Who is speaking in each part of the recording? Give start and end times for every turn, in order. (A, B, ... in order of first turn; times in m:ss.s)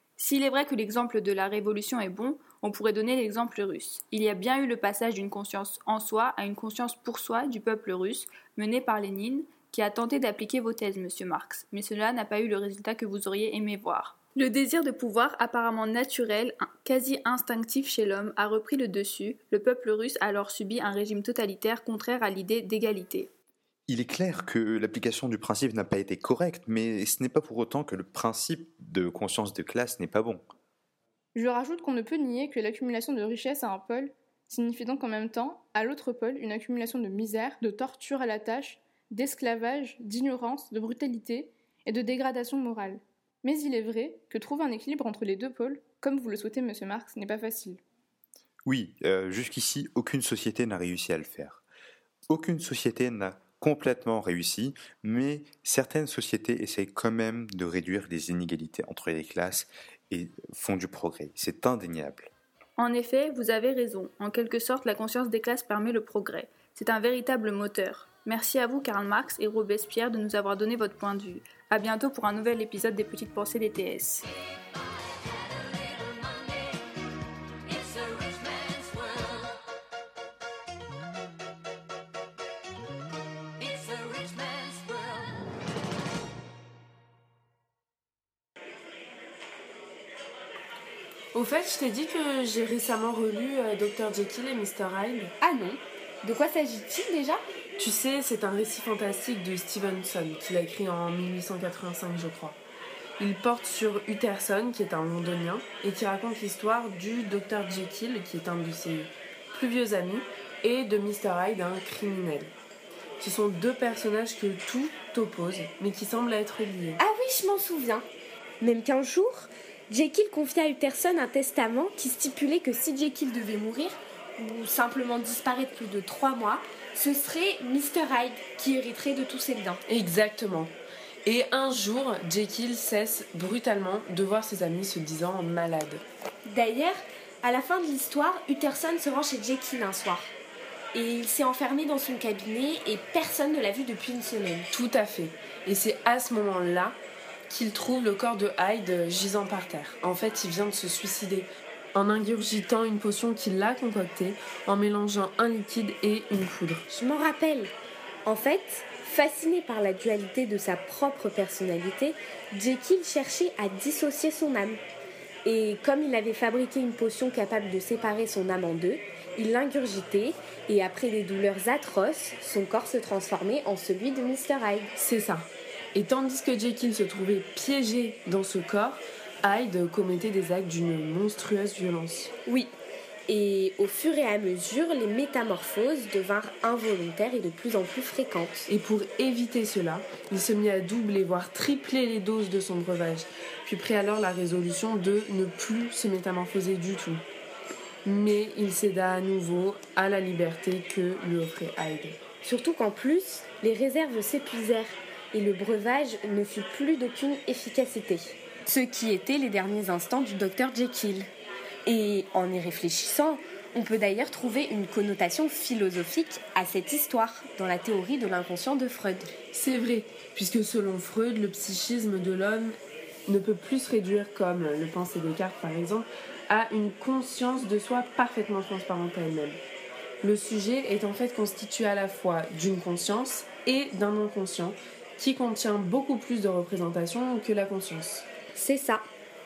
0:00.2-0:23.3 A
0:23.9-0:30.4 B
0:31.3-0:47.8 C
0:48.6-0:51.6 B
0:52.3-1:02.3 B
1:02.8-1:14.3 A
1:31.3-1:35.3 D
1:35.4-1:37.4 E
1:37.8-1:42.6 D
1:43.2-1:52.5 D
1:53.2-1:57.0 D
1:57.0-1:58.1 E
1:58.6-2:09.8 E
2:09.9-2:10.7 D
2:11.2-2:16.0 D
2:16.5-2:20.3 E
2:20.9-2:24.7 E
2:24.7-2:27.0 D
2:27.5-2:36.8 D
2:36.9-2:37.7 E
2:38.3-2:44.8 E
2:45.4-2:54.9 E
2:55.0-3:02.3 D
3:02.5-3:02.7 E
3:03.3-3:08.7 E
3:08.7-3:17.2 D
3:18.0-3:22.3 D
3:22.4-3:31.3 E
3:31.9-3:39.3 E
3:39.5-3:42.8 D
3:43.3-3:49.6 D
3:50.2-3:58.2 D
3:58.6-3:59.0 E